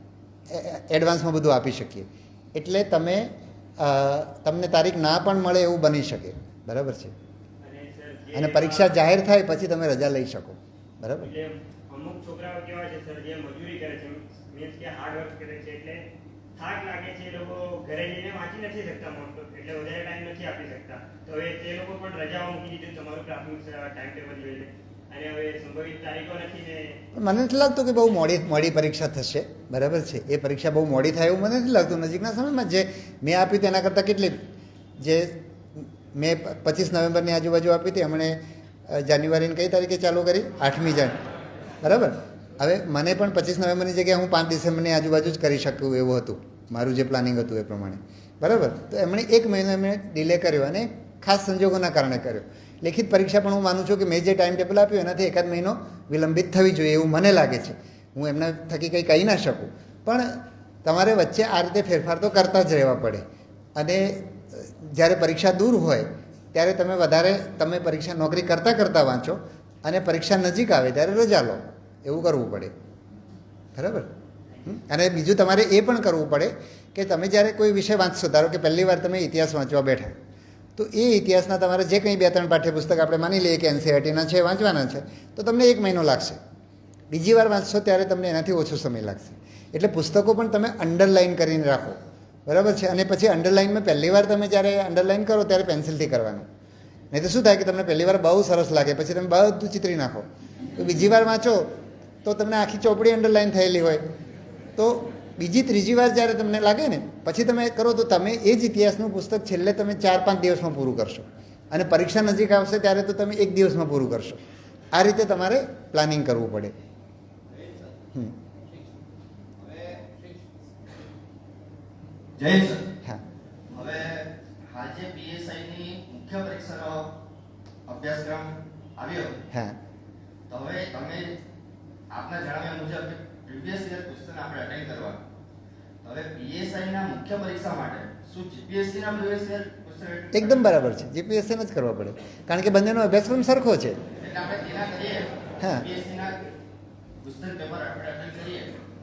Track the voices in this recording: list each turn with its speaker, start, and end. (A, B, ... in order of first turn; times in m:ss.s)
0:00.5-0:07.1 A
0:07.6-0:08.9 B
0:08.3-0:11.3 A
0:11.2-0:16.0 B
0:16.6-0:27.0 B
0:27.2-0:34.4 A
0:35.0-0:41.2 A
0:41.8-1:03.2 A
1:03.8-1:12.7 A
1:13.8-1:14.1 A
1:14.6-1:20.2 A
1:20.8-1:26.4 A
1:27.1-1:36.5 A
1:37.1-1:41.7 A
1:42.2-1:44.0 A
1:44.8-1:54.4 A
1:54.9-1:56.7 A
1:59.6-2:00.2 C
2:02.4-2:02.8 C
2:03.7-2:07.1 C
2:07.9-2:09.4 C
2:09.5-2:09.8 A
2:10.5-2:11.3 C
2:12.1-2:15.2 C
2:16.0-2:20.7 C
2:20.3-2:24.0 A
2:24.2-2:26.5 C
2:27.2-2:28.8 C